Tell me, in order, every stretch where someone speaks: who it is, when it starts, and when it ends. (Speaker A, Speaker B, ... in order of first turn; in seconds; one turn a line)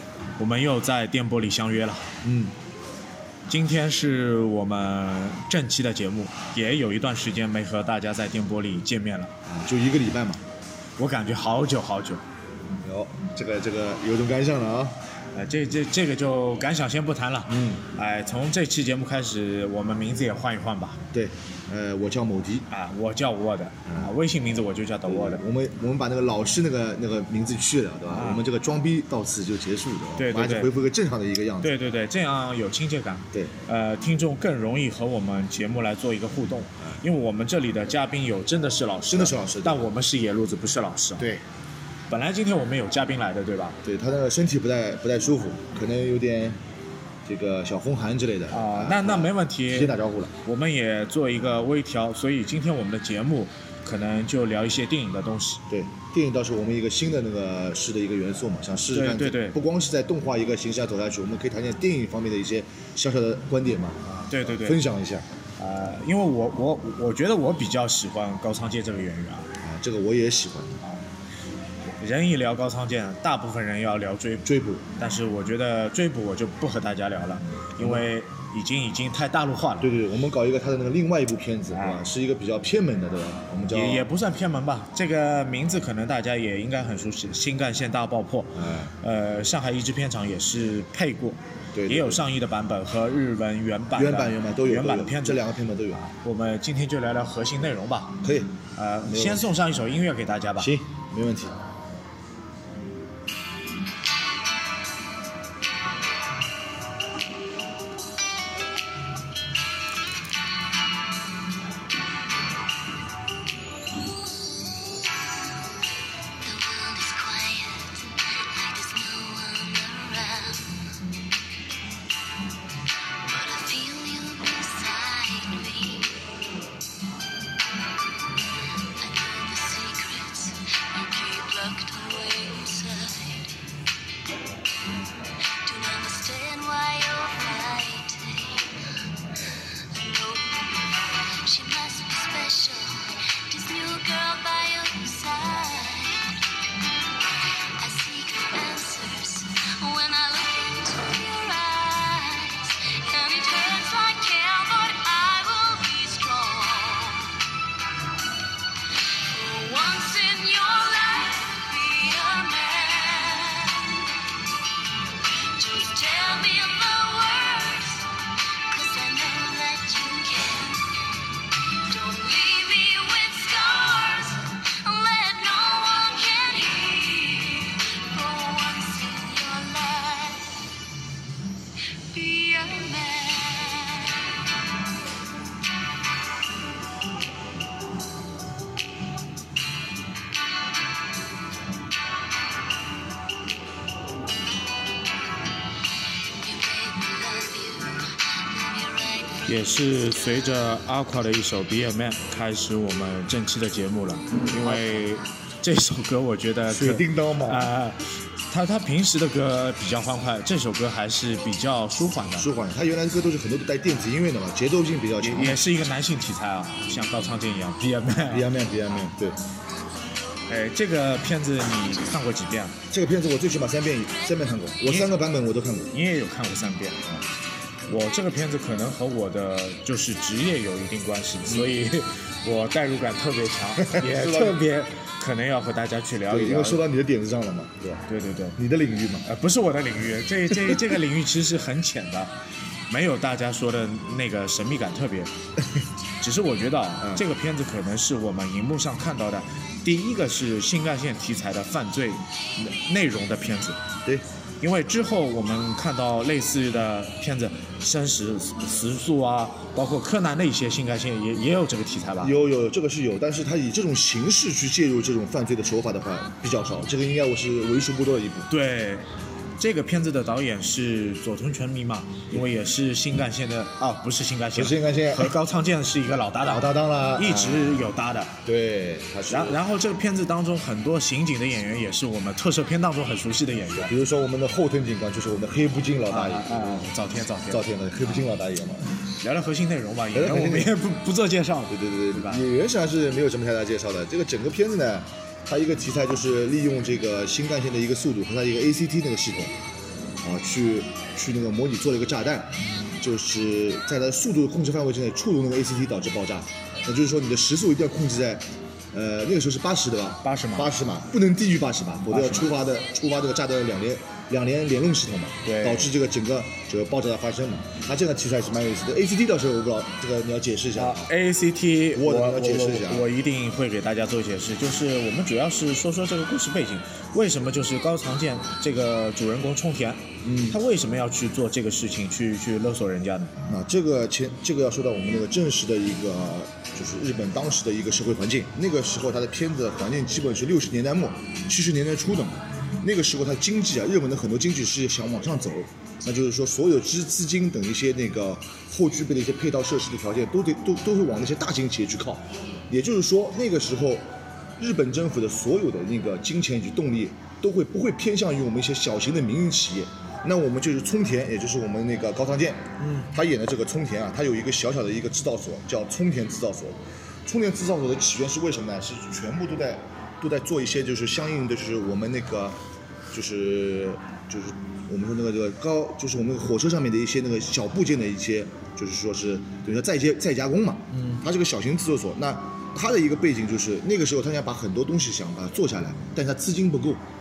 Speaker A: 0.4-2.1
Speaker B: 2.2-2.5
Speaker A: 3.5-9.3
Speaker B: 9.5-10.4
Speaker A: 11.0-12.2
Speaker B: 12.8-15.0
Speaker A: 15.3-21.0
Speaker B: 17.5-17.8
Speaker B: 21.1-22.7
Speaker A: 22.7-25.4
Speaker B: 23.9-24.1
Speaker B: 25.1-31.7
Speaker A: 28.1-28.4
Speaker A: 30.2-30.7
Speaker A: 31.6-41.3
Speaker B: 39.1-39.9
Speaker A: 42.1-43.8
Speaker B: 43.9-46.6
Speaker B: 47.2-50.3
Speaker A: 48.5-55.6
Speaker B: 55.7-65.3
Speaker A: 58.9-59.6
Speaker A: 64.1-64.8
Speaker A: 65.6-69.5
Speaker B: 69.6-70.9
Speaker A: 72.0-79.9
Speaker B: 74.5-74.8
Speaker B: 77.8-78.0
Speaker B: 79.8-84.1
Speaker A: 81.7-82.0
Speaker A: 83.7-95.4
Speaker B: 88.6-88.9
Speaker B: 91.8-92.2
Speaker B: 93.9-96.0
Speaker A: 96.0-98.2
Speaker B: 98.2-98.5
Speaker A: 98.8-100.7
Speaker B: 99.0-99.5
Speaker B: 100.6-101.6
Speaker C: 116.4-120.8
Speaker C: 123.2-126.2
Speaker C: 129.0-133.6
Speaker C: 135.6-138.8
Speaker C: 139.9-146.3
Speaker C: 147.8-157.4
Speaker C: 159.3-164.1
Speaker C: 165.3-168.1
Speaker C: 168.7-170.9
Speaker C: 171.8-180.5
Speaker C: 182.1-184.3
Speaker C: 196.4-200.6
Speaker A: 199.5-212.5
Speaker B: 204.6-204.9
Speaker B: 206.7-207.7
Speaker B: 212.4-215.6
Speaker A: 215.2-218.5
Speaker B: 218.2-219.4
Speaker A: 220.5-222.8
Speaker B: 222.9-225.9
Speaker A: 224.8-225.1
Speaker A: 225.9-227.0
Speaker A: 227.9-236.8
Speaker B: 231.5-231.7
Speaker B: 233.8-234.6
Speaker B: 236.3-238.0
Speaker A: 238.1-238.6
Speaker B: 238.6-239.3
Speaker A: 239.2-242.3
Speaker A: 242.9-245.3
Speaker A: 246.2-253.8
Speaker A: 254.6-262.3
Speaker B: 262.2-268.5
Speaker A: 268.5-269.1
Speaker A: 269.6-278.4
Speaker B: 274.6-275.4
Speaker B: 276.4-277.9
Speaker B: 278.4-279.6
Speaker A: 279.3-283.9
Speaker B: 283.8-286.9
Speaker A: 286.1-288.3
Speaker B: 287.5-288.9
Speaker A: 289.2-292.4
Speaker B: 290.1-290.7
Speaker B: 291.7-299.5
Speaker B: 300.2-321.1
Speaker A: 310.2-310.8
Speaker A: 312.1-312.5
Speaker A: 315.4-315.9
Speaker A: 320.8-333.4
Speaker B: 321.9-323.1
Speaker B: 330.2-330.6
Speaker B: 333.5-372.6
Speaker A: 362.8-363.1
Speaker B: 373.1-387.0
Speaker A: 380.9-381.2